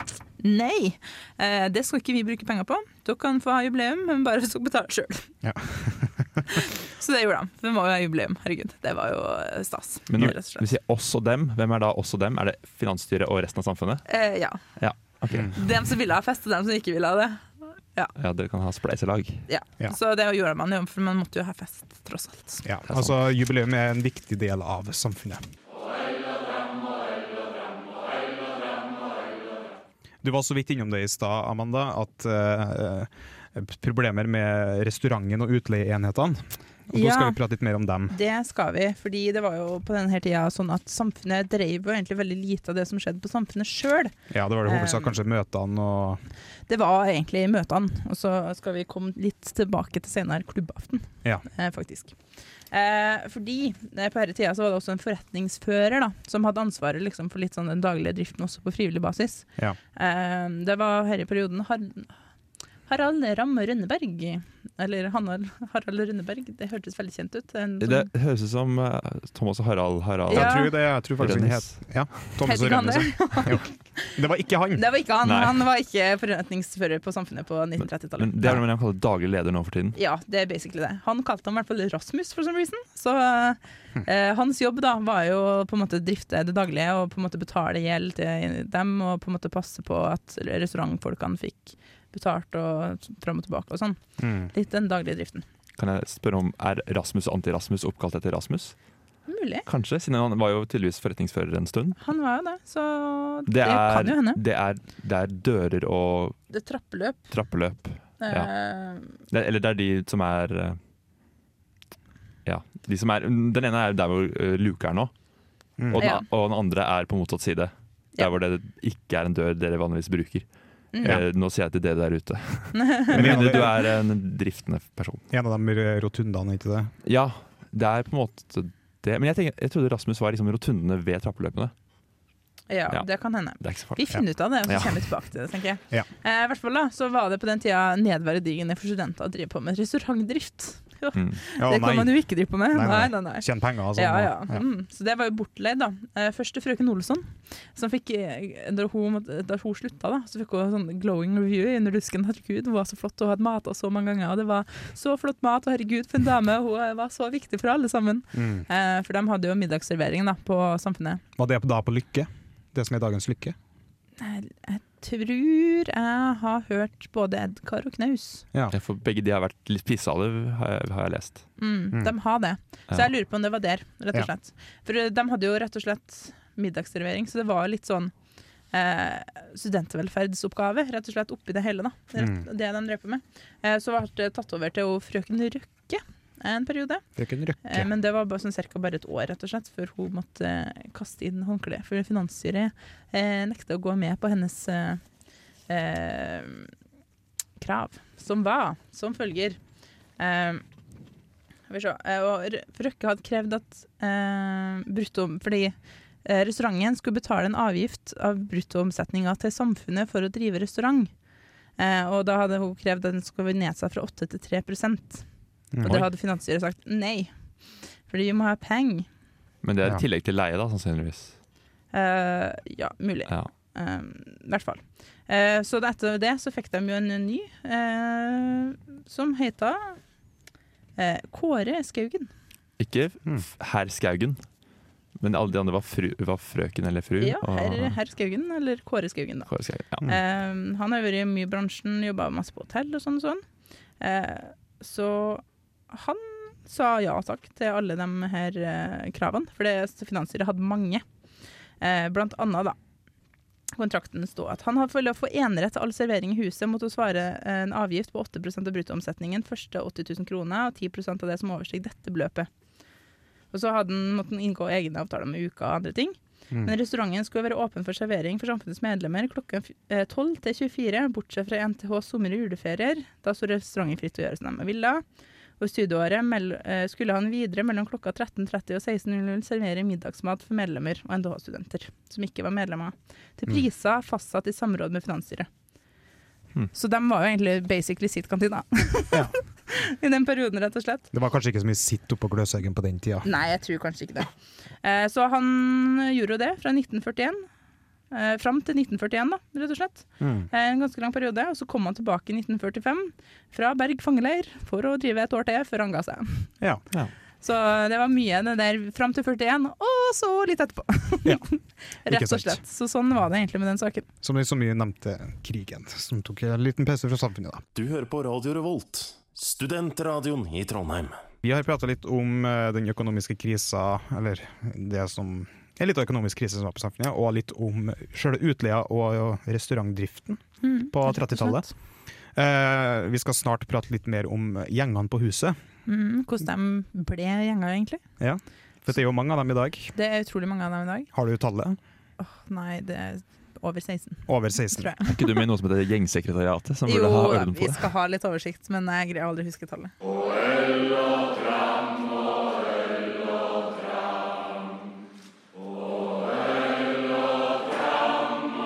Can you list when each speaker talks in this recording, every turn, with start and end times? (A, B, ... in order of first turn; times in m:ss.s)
0:00.4-0:05.3 A
0:05.4-0:06.6 B
0:06.5-0:10.7 A
0:10.1-0:14.1 C
0:14.1-0:14.6 A
0:14.8-0:15.7 C
0:15.5-0:18.1 A
0:18.2-0:19.4 C
0:19.5-0:22.6 A
0:22.6-0:25.4 B
0:30.2-0:38.2 B
0:36.9-0:37.4 A
0:38.1-0:44.1 A
0:44.3-0:46.2 B
0:44.6-0:45.2 A
0:46.7-0:52.2 A
0:52.7-1:02.1 A
1:02.9-1:08.1 A
1:07.8-1:11.8 C
1:10.3-1:10.8 A
1:10.3-1:14.8 B
1:12.4-1:14.2 A
1:14.8-1:18.3 A
1:15.2-1:15.6 C
1:18.2-1:20.0 C
1:20.0-1:34.0 A
1:34.2-1:34.5 B
1:34.5-1:35.4 A
1:35.8-1:38.8 C
1:39.3-1:39.6 A
1:39.7-1:42.0 C
1:42.0-1:44.4 A
1:43.5-1:46.4 C
1:46.5-1:47.3 A
1:47.3-1:48.5 C
1:48.2-1:49.1 A
1:49.3-1:50.8 C
1:52.5-1:55.1 C
1:55.8-1:56.1 B
1:55.9-2:00.4 C
1:56.0-1:56.2 A
2:00.9-2:01.2 A
2:01.0-2:05.2 C
2:02.7-2:03.8 A
2:03.1-2:03.8 B
2:05.3-2:06.9 B
2:07.0-2:11.7 C
2:12.7-2:41.2 A
2:13.6-2:15.0 C
2:21.2-2:21.4 C
2:21.6-2:24.6 B
2:38.3-2:38.7 B
2:41.4-2:43.6 B
2:44.2-2:48.4 A
2:48.7-2:51.5 C
2:51.6-2:58.1 A
2:58.7-3:07.0 A
3:02.2-3:02.4 B
3:07.2-3:07.9 B
3:07.6-3:15.0 A
3:15.7-3:16.7 A
3:17.6-3:19.6 A
3:20.2-3:20.6 A
3:21.7-3:31.1 A
3:31.8-3:35.2 A
3:35.7-3:36.0 B
3:35.8-3:37.3 A
3:38.1-3:39.1 A
3:39.6-3:41.4 C
3:41.9-3:50.0 A
3:51.0-3:52.3 A
3:52.8-3:54.4 C
3:55.2-3:58.0 C
3:57.2-3:59.5 A
3:59.5-4:00.1 C
4:00.0-4:03.4 A
4:04.0-4:11.0 A
4:11.8-4:12.8 A
4:13.8-4:22.5 A
4:23.5-4:35.0 A
4:35.6-4:45.5 A
4:46.7-4:51.1 A
4:51.1-4:53.3 B
4:53.2-4:54.3 A
4:54.8-4:57.5 A
4:58.1-5:06.5 A
5:00.2-5:00.5 B
5:07.4-5:14.1 A
5:12.1-5:12.6 B
5:14.2-5:17.6 B
5:17.8-5:21.2 D
5:21.4-5:31.7 B
5:30.6-5:31.7 A
5:32.4-5:35.6 B
5:35.9-5:38.0 A
5:38.2-5:39.9 B
5:40.0-5:41.1 A
5:41.1-5:41.8 B
5:42.2-5:45.4 A
5:44.3-5:44.9 B
5:45.1-5:47.8 C
5:46.9-5:49.9 A